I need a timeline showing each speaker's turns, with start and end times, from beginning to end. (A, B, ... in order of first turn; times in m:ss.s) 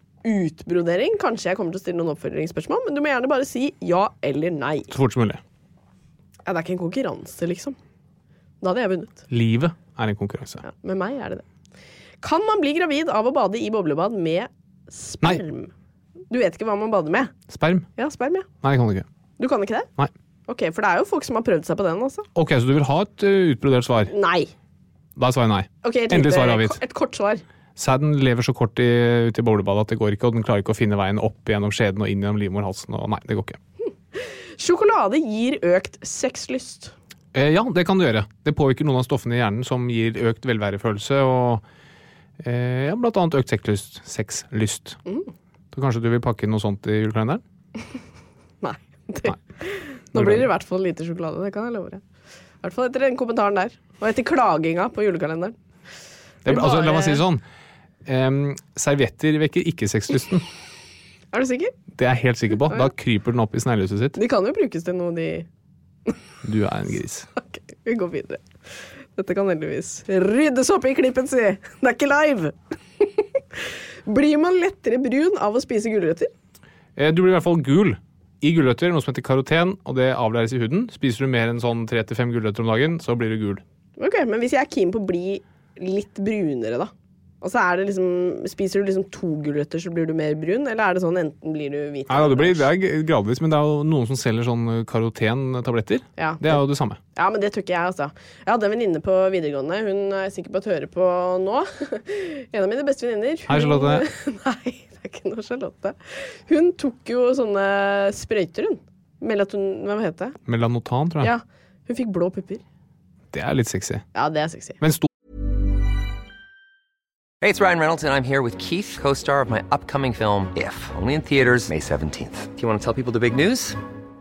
0:00.2-0:04.9 A
0:04.9-0:05.4 B
0:06.5-0:07.8 A
0:08.6-0:09.2 A
0:09.3-0:10.6 B
0:10.6-0:11.4 A
0:12.2-0:15.7 A
0:16.3-0:17.3 A
0:17.5-0:17.9 B
0:18.0-0:18.5 A
0:18.6-0:19.1 B
0:19.4-0:19.9 A
0:20.5-0:22.3 A
0:22.4-0:24.1 B
0:24.1-0:24.5 A
0:25.2-0:26.8 B
0:25.8-0:27.4 A
0:27.8-0:33.6 B
0:34.1-0:36.9 A
0:37.3-0:41.6 B
0:42.4-0:45.0 B
0:45.7-0:47.4 B
0:48.6-0:52.0 A
0:50.1-0:50.5 B
0:52.6-0:55.6 A
0:56.4-0:57.4 B
0:56.5-0:57.2 A
0:58.0-1:00.4 B
1:01.3-1:01.8 A
1:02.0-1:04.2 B
1:04.2-1:05.5 A
1:06.4-1:07.3 B
1:07.4-1:08.4 A
1:09.2-1:16.3 A
1:17.0-1:23.6 B
1:24.0-1:32.7 A
1:32.1-1:37.0 B
1:36.2-1:36.6 A
1:37.1-1:50.4 A
1:43.5-1:44.1 B
1:50.5-1:51.3 B
1:51.2-1:52.6 A
1:53.3-1:54.1 B
1:54.2-1:54.8 A
1:54.8-1:55.1 B
1:57.4-2:03.8 C